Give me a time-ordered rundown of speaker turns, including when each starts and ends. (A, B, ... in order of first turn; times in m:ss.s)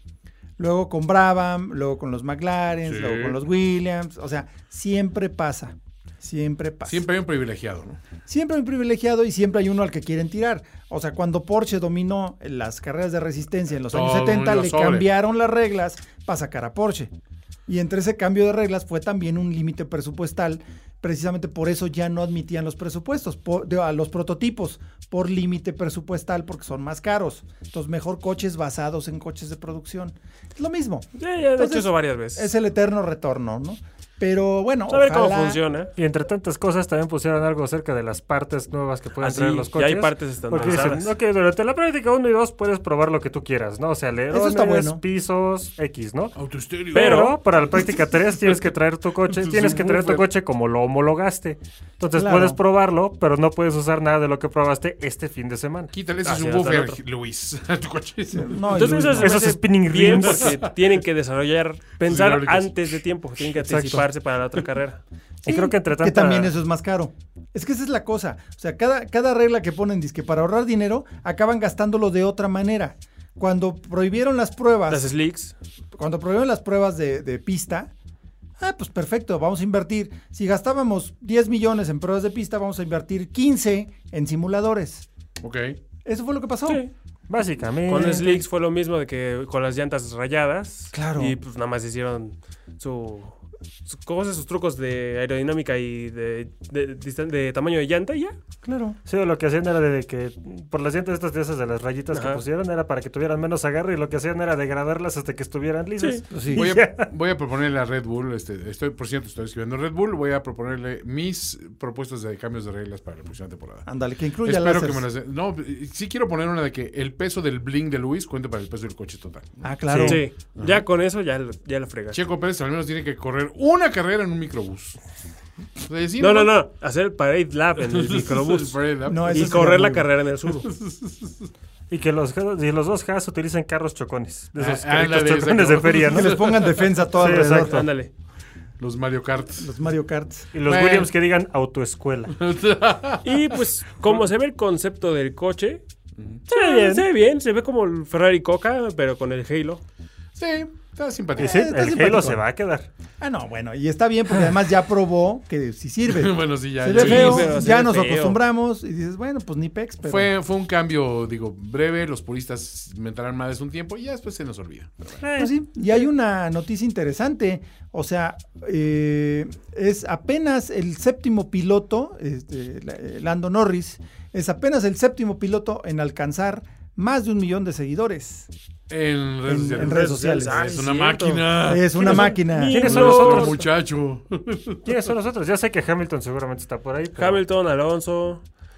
0:00.6-0:07.0 A
0:02.8-0:03.4 B
0:06.9-0:08.0 B
0:08.3-0:17.1 A
0:13.9-0:15.1 B
0:17.7-0:35.6 A
0:31.2-0:32.5 C
0:34.9-0:35.9 C
0:36.0-0:46.4 D
0:39.2-0:41.1 C
0:44.3-0:45.0 A
0:46.4-0:47.3 B
0:46.9-0:47.4 C
0:46.9-0:55.9 D
0:49.3-0:50.3 B
0:52.2-0:52.6 A
0:55.9-0:58.7 B
0:56.2-0:57.0 C
0:58.3-0:59.6 A
0:58.7-1:05.0 C
0:59.1-1:00.6 D
1:02.0-1:03.0 B
1:03.6-1:04.0 D
1:05.4-1:06.5 D
1:05.4-1:15.1 A
1:14.9-1:15.6 C
1:16.0-1:17.9 A
1:18.6-1:25.1 A
1:25.4-1:25.8 B
1:26.0-1:26.8 A
1:26.7-1:26.9 C
1:27.3-1:28.4 D
1:27.9-1:38.4 C
1:30.9-1:31.4 A
1:38.6-1:39.0 A
1:39.1-1:47.1 D
1:42.1-1:42.4 C
1:46.3-1:46.7 A
1:46.5-1:53.9 B
1:53.9-1:55.0 A
1:54.4-1:59.7 B
1:59.6-2:00.2 A
1:59.9-2:00.2 D
2:00.0-2:02.2 C
2:00.6-2:00.8 B
2:02.1-2:05.0 B
2:05.8-2:06.6 B
2:06.2-2:10.7 C
2:07.8-2:09.7 B
2:09.1-2:10.1 A
2:10.6-2:11.5 B
2:11.9-2:16.4 D
2:14.6-2:16.8 B
2:16.1-2:17.8 A
2:17.1-2:17.9 D
2:17.2-2:18.1 C
2:18.8-2:19.7 B
2:19.6-2:20.5 A
2:20.5-2:22.4 D
2:20.6-2:21.1 B
2:22.3-2:24.2 B
2:23.2-2:25.8 C
2:26.5-2:27.1 D
2:26.5-2:29.8 C
2:30.4-2:31.7 B
2:31.4-2:32.9 D
2:31.4-2:32.4 A
2:33.2-2:40.3 A
2:36.1-2:37.6 B
2:36.9-2:38.4 C
2:40.0-2:45.1 B
2:45.2-2:45.5 D
2:45.4-2:58.5 A
2:58.9-3:02.2 B
2:59.5-3:00.8 A
2:59.8-3:03.6 C
3:01.5-3:02.9 A
3:02.1-3:03.6 D
3:02.8-3:04.8 B
3:04.8-3:07.4 D
3:07.2-3:08.4 C